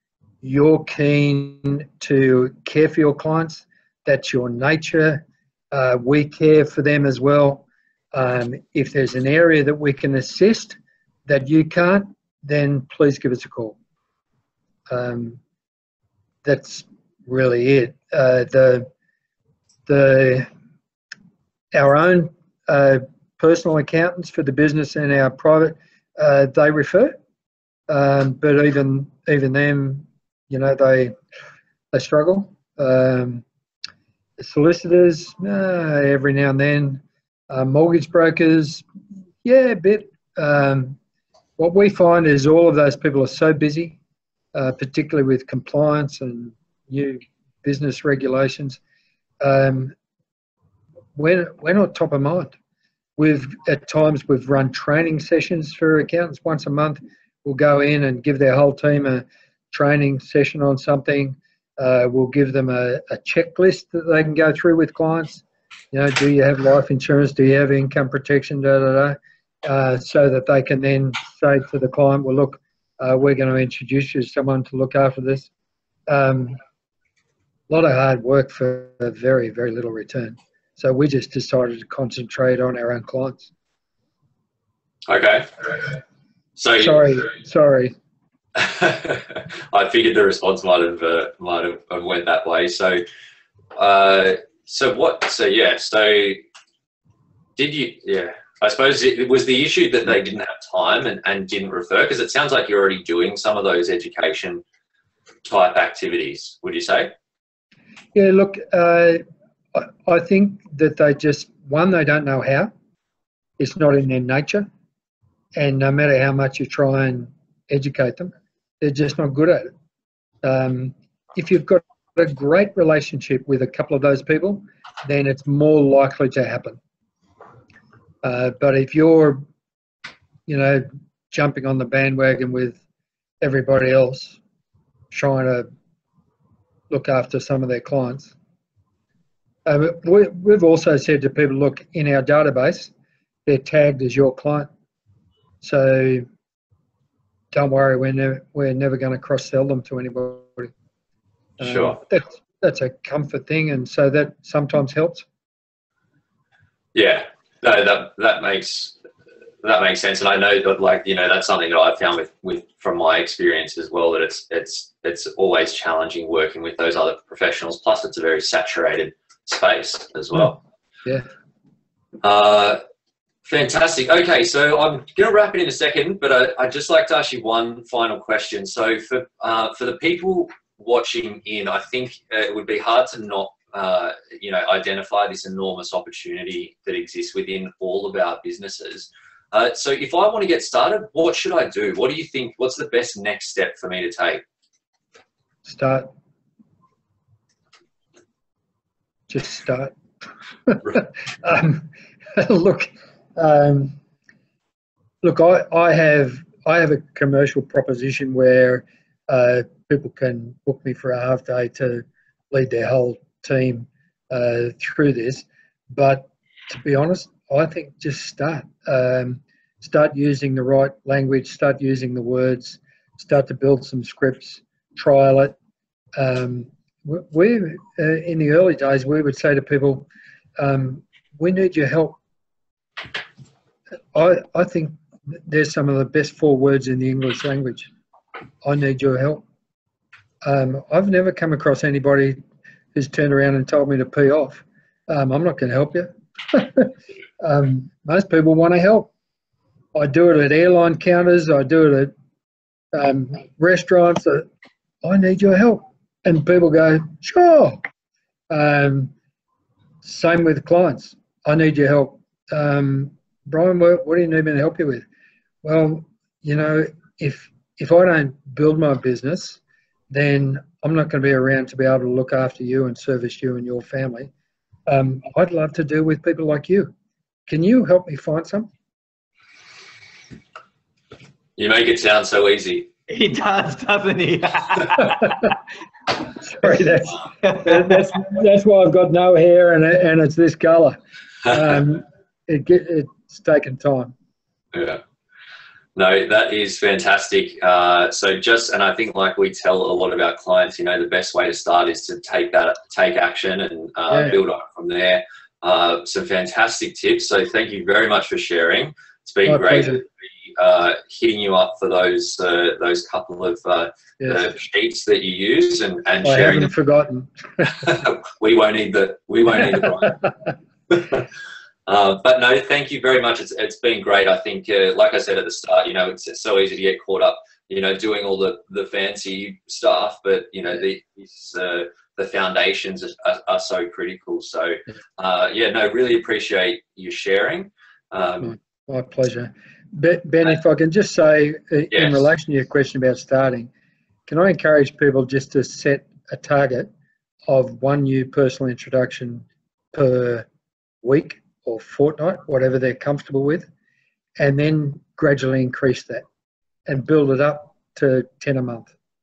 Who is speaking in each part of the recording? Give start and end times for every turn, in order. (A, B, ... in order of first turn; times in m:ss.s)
0:00.4-0:13.8 A
0:14.9-0:15.4 A
0:16.4-0:18.9 A
0:19.9-0:20.5 A
0:21.7-0:27.1 A
0:27.9-0:31.1 A
0:31.9-0:33.4 A
0:34.4-0:38.8 A
0:39.4-0:41.0 A
0:41.6-0:44.0 A
0:44.5-0:48.8 A
0:49.4-0:49.9 A
0:51.1-0:52.5 A
0:53.2-1:15.5 A
1:16.1-1:16.6 A
1:17.7-1:23.5 A
1:25.1-1:26.0 B
1:26.6-1:27.3 B
1:26.8-1:27.9 A
1:28.6-1:33.0 B
1:33.8-1:36.4 B
1:37.6-1:44.6 B
1:45.4-1:47.1 B
1:48.1-1:49.2 A
1:49.7-1:52.7 A
1:53.6-1:54.7 A
1:55.6-1:59.7 A
2:00.4-2:06.8 A
2:08.2-2:09.4 A
2:10.5-2:12.8 A
2:13.4-2:14.4 A
2:15.1-2:15.7 A
2:16.9-2:18.3 A
2:19.6-2:22.9 A
2:23.4-2:24.7 A
2:25.6-2:26.2 A
2:27.5-2:30.7 A
2:31.6-2:32.0 B
2:31.6-2:35.2 A
2:36.9-2:38.9 B
2:39.6-2:50.6 B
2:52.2-2:52.8 B
2:53.4-3:14.4 B
3:15.6-3:16.1 A
3:19.3-3:20.0 A
3:20.7-3:24.0 A
3:25.2-3:45.5 A
3:46.2-3:50.0 A
3:50.6-3:52.2 A
3:54.1-3:57.9 A
3:58.6-3:59.4 A
4:00.4-4:02.4 A
4:02.9-4:09.1 A
4:09.9-4:12.1 A
4:12.9-4:14.4 A
4:15.0-4:17.8 A
4:18.5-4:19.1 A
4:20.0-4:25.0 A
4:25.6-4:34.3 A
4:34.9-4:36.9 A
4:37.5-4:38.7 A
4:41.6-4:42.9 B
4:43.1-4:45.2 C
4:46.4-4:54.1 A
4:47.5-4:47.8 C
4:54.7-4:55.0 B
4:56.0-5:16.7 B
5:04.1-5:04.4 A
5:09.4-5:10.0 A
5:14.2-5:14.4 A
5:16.2-5:17.8 A
5:17.6-5:20.3 B
5:20.9-5:21.3 B
5:21.9-5:38.6 B
5:38.4-5:43.7 A
5:41.9-5:42.3 B
5:44.3-5:46.9 A
5:47.4-5:50.4 A
5:51.0-5:53.7 A
5:54.4-5:56.2 A
5:56.9-5:58.9 A